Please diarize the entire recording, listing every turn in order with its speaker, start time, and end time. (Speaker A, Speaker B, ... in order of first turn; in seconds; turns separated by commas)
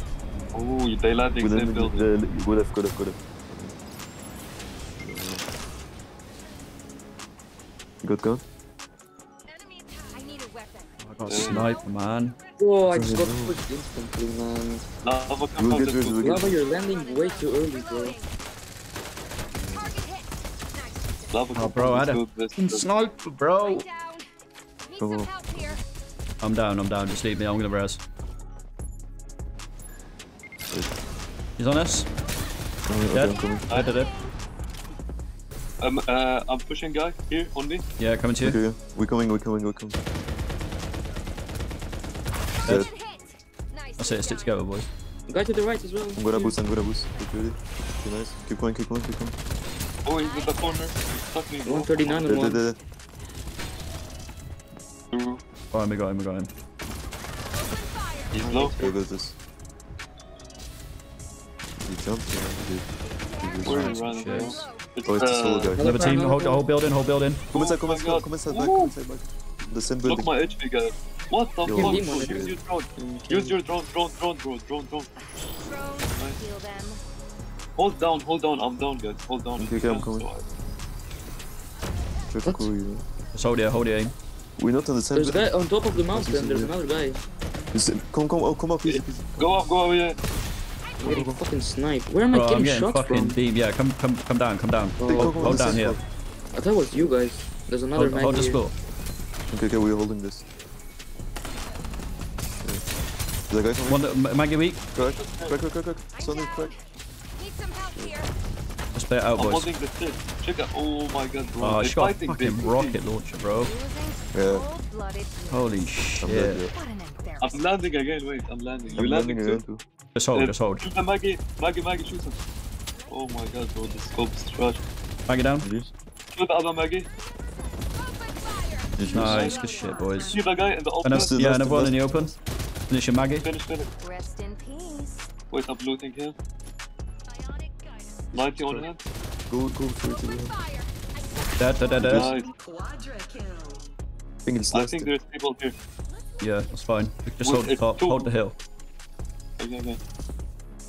Speaker A: 0.5-2.1, Speaker B: 1.4-3.8, Speaker B: 5.0-5.4, Speaker B: 8.0-8.4, Speaker C: 9.5-12.8, Speaker D: 11.0-12.4, Speaker A: 11.3-11.7, Speaker E: 12.6-14.9, Speaker B: 12.9-13.6, Speaker A: 15.0-16.5, Speaker B: 15.6-16.5, Speaker E: 16.2-18.2, Speaker C: 16.5-18.3, Speaker B: 19.6-19.9, Speaker C: 19.6-21.6, Speaker A: 21.3-22.9, Speaker D: 21.6-23.9, Speaker C: 23.5-24.2, Speaker C: 24.8-25.8, Speaker B: 25.0-25.8, Speaker D: 26.4-28.0, Speaker D: 31.6-32.1, Speaker B: 32.9-33.8, Speaker D: 33.1-34.1, Speaker C: 33.1-34.3, Speaker A: 35.8-37.9, Speaker D: 38.0-38.6, Speaker B: 38.4-40.0, Speaker C: 42.6-44.7, Speaker D: 42.6-42.9, Speaker B: 42.6-42.9, Speaker D: 44.0-44.9, Speaker E: 45.3-46.5, Speaker B: 46.1-49.4, Speaker A: 50.0-52.5, Speaker C: 50.1-51.0, Speaker E: 51.6-52.6, Speaker B: 52.2-52.8, Speaker A: 55.1-55.4, Speaker D: 55.7-56.5, Speaker C: 57.5-58.5, Speaker A: 58.3-58.8, Speaker B: 58.4-59.4, Speaker B: 61.8-63.9, Speaker C: 63.1-64.9, Speaker A: 63.6-65.8, Speaker D: 63.7-64.7, Speaker B: 65.0-66.1, Speaker E: 65.7-66.7, Speaker D: 65.8-67.4, Speaker A: 67.5-68.9, Speaker B: 67.5-70.3, Speaker A: 70.0-75.1, Speaker B: 71.7-72.6, Speaker E: 71.7-73.6, Speaker C: 75.3-77.0, Speaker A: 76.1-76.4, Speaker A: 77.8-80.5, Speaker B: 79.6-80.3, Speaker B: 82.3-83.0, Speaker E: 82.5-82.7, Speaker D: 83.3-84.2, Speaker B: 84.6-85.6, Speaker E: 85.1-87.2, Speaker B: 86.1-86.8, Speaker B: 87.7-89.7, Speaker A: 88.8-90.2, Speaker B: 91.0-91.4, Speaker E: 91.0-93.4, Speaker D: 92.3-96.0, Speaker E: 95.0-95.7, Speaker B: 95.1-96.0, Speaker E: 96.5-98.6, Speaker B: 96.9-97.2, Speaker D: 98.0-98.7, Speaker B: 99.5-100.5, Speaker B: 102.6-102.9, Speaker B: 103.5-104.0, Speaker D: 103.9-104.8, Speaker B: 104.9-106.7, Speaker A: 105.1-105.6, Speaker C: 106.1-108.3, Speaker D: 108.9-109.7, Speaker A: 109.4-113.0, Speaker D: 111.6-113.7, Speaker C: 113.6-116.2, Speaker B: 114.3-114.7, Speaker D: 115.5-116.6, Speaker B: 116.2-116.7, Speaker C: 116.7-117.9, Speaker A: 117.4-119.7, Speaker B: 119.0-119.8, Speaker D: 120.2-120.8, Speaker A: 120.3-122.4, Speaker A: 123.1-124.8, Speaker D: 125.3-125.7, Speaker B: 125.6-125.9, Speaker A: 126.3-127.1, Speaker C: 127.3-130.7, Speaker B: 129.0-129.6, Speaker D: 129.1-130.4, Speaker A: 130.3-131.4, Speaker D: 131.0-132.3, Speaker B: 131.1-132.3, Speaker D: 132.9-133.5, Speaker A: 133.4-133.9, Speaker C: 134.0-135.3, Speaker A: 135.5-136.4, Speaker C: 137.3-138.3, Speaker B: 138.3-138.9, Speaker A: 138.3-139.1, Speaker B: 139.5-140.6, Speaker C: 140.0-142.3, Speaker D: 141.6-142.3, Speaker B: 142.0-142.4, Speaker A: 142.1-142.5, Speaker B: 144.4-145.1, Speaker A: 144.7-145.8, Speaker C: 146.1-146.8, Speaker D: 146.4-148.6, Speaker A: 147.4-148.3, Speaker A: 149.6-150.0